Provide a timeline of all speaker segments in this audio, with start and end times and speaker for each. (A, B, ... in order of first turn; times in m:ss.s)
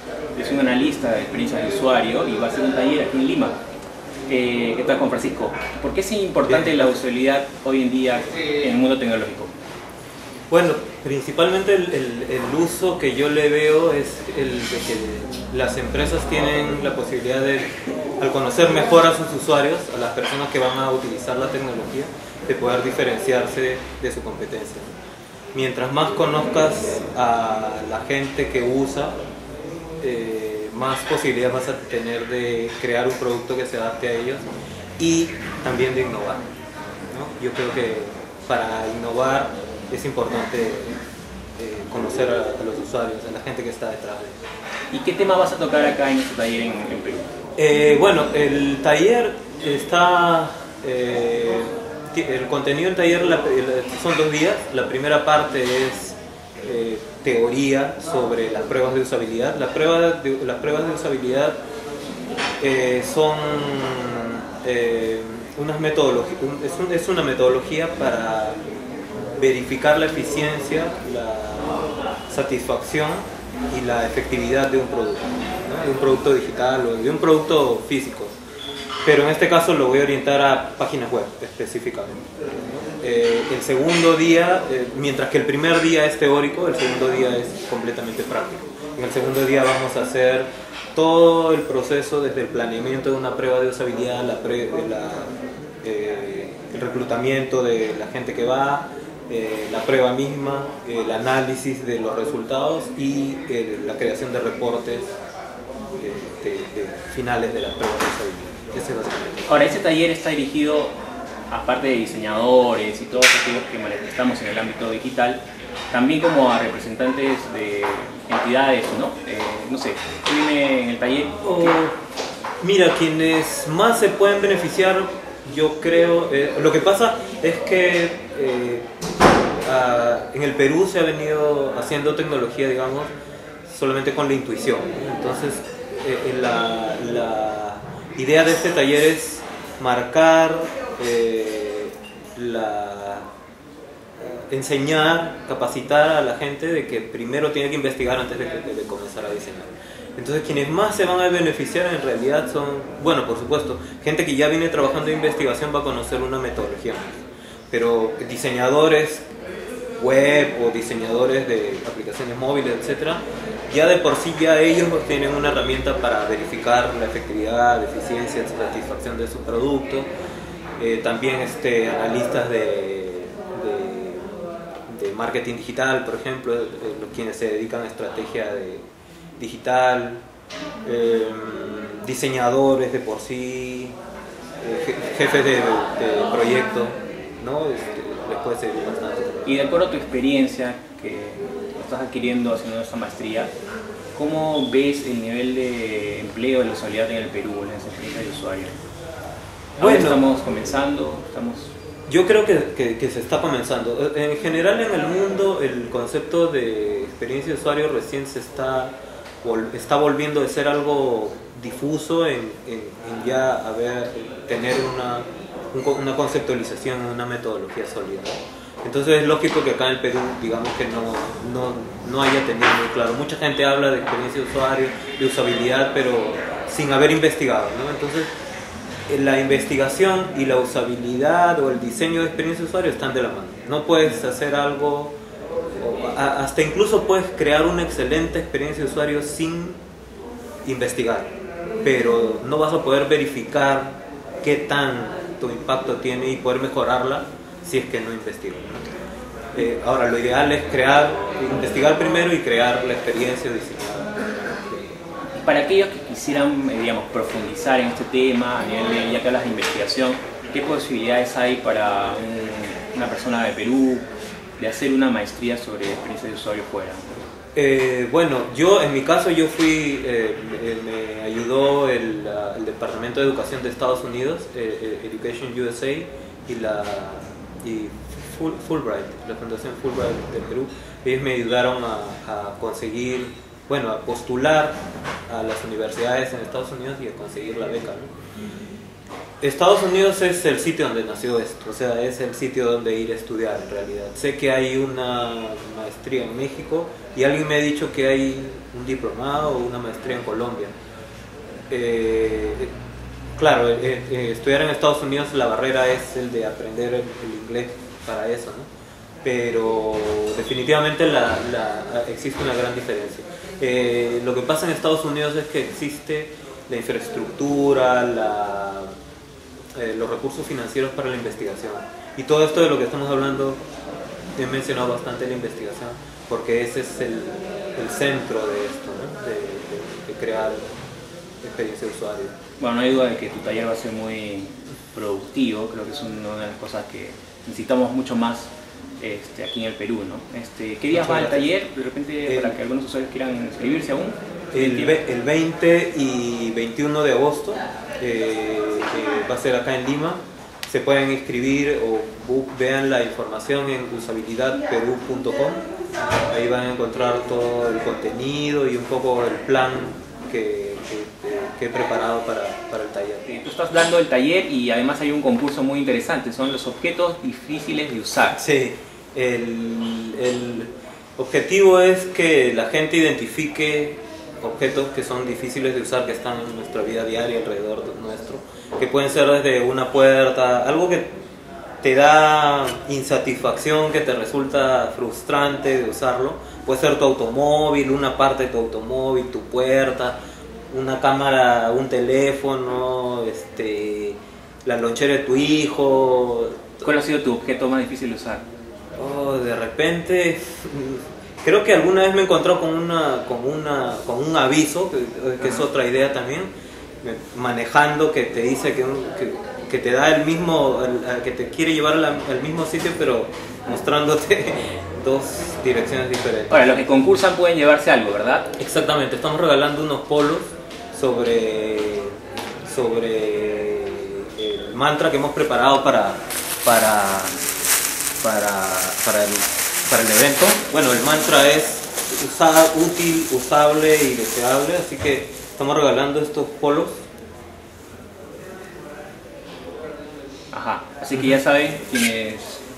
0:00.3-0:03.6 A
0:04.3-0:09.5 A
0:06.4-0:07.0 B
0:10.5-0:24.9 B
0:25.5-0:29.2 B
0:30.0-0:36.4 B
0:37.1-0:41.0 B
0:41.6-0:44.4 B
0:44.9-0:47.3 A
0:47.6-1:01.6 B
1:02.6-1:08.6 B
1:09.4-1:18.3 B
1:19.0-1:45.1 B
1:46.0-1:49.5 B
1:49.5-1:51.0 A
1:51.5-2:01.8 A
2:01.4-2:01.9 B
2:02.6-2:08.9 B
2:09.6-2:13.1 B
2:13.6-2:23.3 B
2:24.2-2:39.2 B
2:40.0-2:50.1 B
2:50.8-2:54.3 B
2:54.9-2:58.8 B
2:59.4-3:00.2 B
3:00.8-3:04.0 B
3:04.6-3:09.6 B
3:09.4-3:13.5 A
3:14.1-3:18.8 A
3:19.8-3:21.7 A
3:19.8-3:20.2 B
3:22.1-3:48.3 B
3:49.1-3:55.1 B
3:55.8-3:59.8 B
4:00.6-4:01.3 B
4:01.8-4:08.9 B
4:09.5-4:15.0 B
4:15.3-4:24.1 A
4:24.6-4:27.2 A
4:27.5-4:48.1 B
4:49.4-5:00.7 B
5:01.7-5:02.7 B
5:03.4-5:08.7 B
5:09.2-5:18.9 B
5:19.7-5:23.6 B
5:24.4-5:30.7 B
5:31.4-5:32.3 B
5:32.6-5:45.0 A
5:40.9-5:41.5 B
5:42.3-5:42.6 B
5:44.5-5:55.6 B
5:56.3-6:03.2 B
6:03.2-6:08.4 A
6:08.3-6:21.1 B
6:21.8-6:30.2 B
6:30.7-6:36.9 B
6:36.8-6:38.4 A
6:39.0-6:46.5 B
6:47.0-6:56.8 B
6:56.5-6:58.5 A
6:58.6-7:07.4 B
7:08.2-7:17.0 B
7:20.5-7:22.6 A